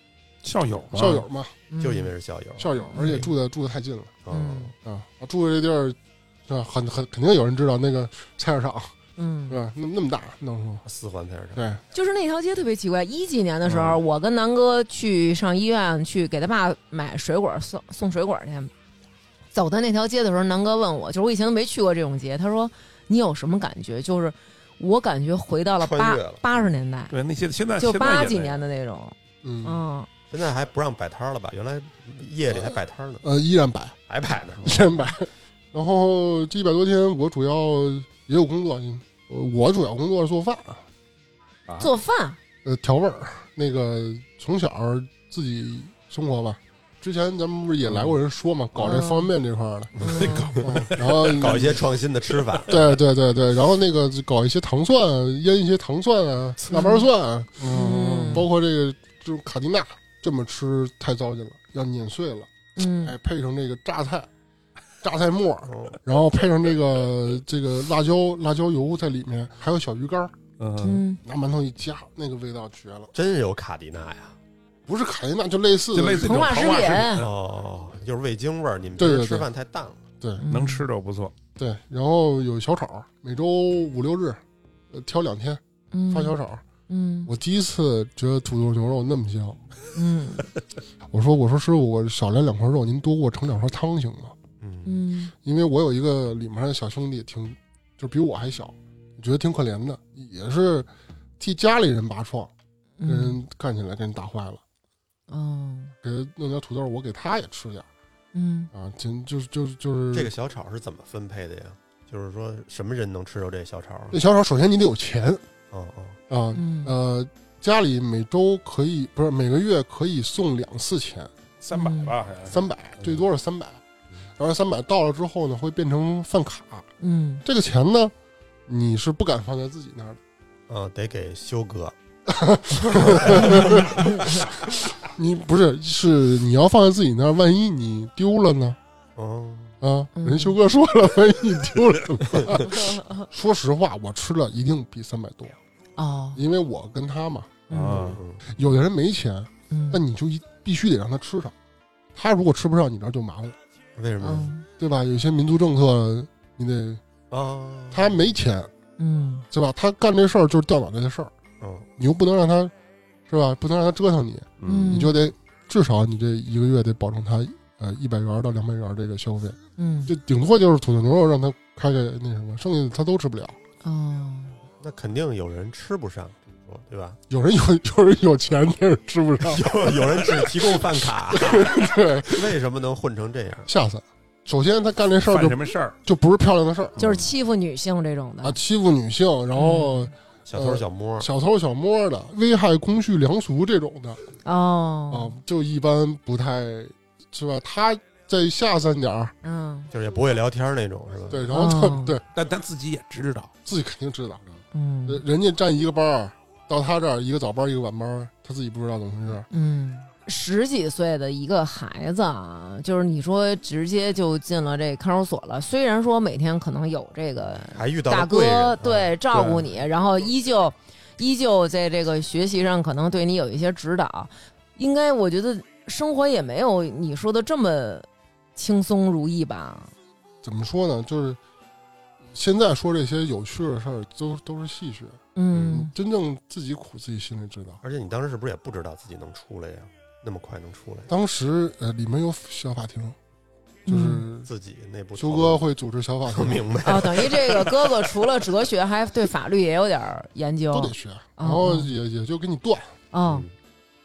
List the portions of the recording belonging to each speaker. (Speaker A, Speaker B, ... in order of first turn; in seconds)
Speaker A: 0.4-1.3, 27.1-28.6, 50.0-51.7, 70.6-71.0, 75.9-77.3, 80.5-81.3, 121.6-123.1, 147.7-148.2, 164.6-165.0, 185.3-186.0, 187.0-187.3, 202.3-203.5, 219.0-219.7
Speaker B: 0.9-1.6, 2.6-4.2, 4.8-8.9, 9.5-10.8, 11.6-11.8, 29.4-29.8, 33.2-34.0, 34.6-40.8, 42.6-50.0, 50.6-51.8, 52.7-62.5, 63.0-64.3, 65.0-70.3, 71.2-73.1, 74.9-76.6, 79.0-79.5, 81.6-86.6, 87.3-89.6, 91.1-94.3, 95.4-102.5, 103.0-104.6, 106.0-107.9, 108.7-110.3, 114.1-115.4, 116.3-121.3, 122.5-123.8, 124.4-126.9, 127.4-128.1, 128.7-130.2, 132.3-138.8, 139.8-145.6, 146.3-147.7, 148.5-151.6, 152.2-153.6, 154.2-157.0, 157.9-158.7, 159.5-161.3, 162.0-162.7, 163.3-173.6, 177.3-182.6, 183.7-187.0, 188.4-194.2, 195.1-199.3, 201.3-202.2, 203.7-204.4, 205.1-209.5, 230.4-231.4, 232.2-237.8, 241.1-243.2, 243.9-244.5, 245.2-247.0, 250.7-252.9
Speaker C: 1.7-2.1, 2.8-3.3, 4.3-4.7, 9.2-9.6, 11.9-18.7, 19.5-27.1, 27.8-30.1, 41.8-42.4, 48.8-49.3, 50.0-50.6, 56.7-57.1, 57.7-58.5, 62.8-63.1, 70.8-71.2, 76.2-77.2, 80.4-80.9, 85.9-87.3, 90.0-90.4, 94.8-95.3, 103.0-103.4, 105.3-106.0, 108.3-108.7, 116.5-116.9, 121.7-122.1, 127.0-127.4, 133.3-134.4, 140.2-140.6, 146.0-146.4, 147.7-148.1, 149.7-150.0, 154.2-154.7, 159.0-159.5, 164.7-165.2, 169.8-170.1, 173.8-174.6, 187.0-188.6, 189.6-190.1, 194.4-195.3, 199.4-199.9, 201.5-202.2, 204.7-205.2, 209.5-229.9, 235.3-235.9, 243.9-244.2, 246.8-251.9, 253.1-253.5
Speaker D: 1.8-2.7, 4.2-4.7, 10.8-11.7, 13.7-14.0, 25.8-26.7, 30.3-33.2, 34.1-35.0, 50.0-52.9, 65.7-66.0, 73.1-74.4, 77.2-80.0, 94.6-95.0, 110.1-114.2, 115.7-116.2, 130.7-131.9, 132.8-134.1, 139.2-139.8, 148.0-148.5, 154.0-154.5, 157.3-158.3, 161.6-161.9, 174.8-177.2, 179.4-183.7, 190.5-191.3, 199.9-201.5, 217.7-218.9, 237.8-241.1, 244.4-245.6, 246.3-248.2, 253.3-253.5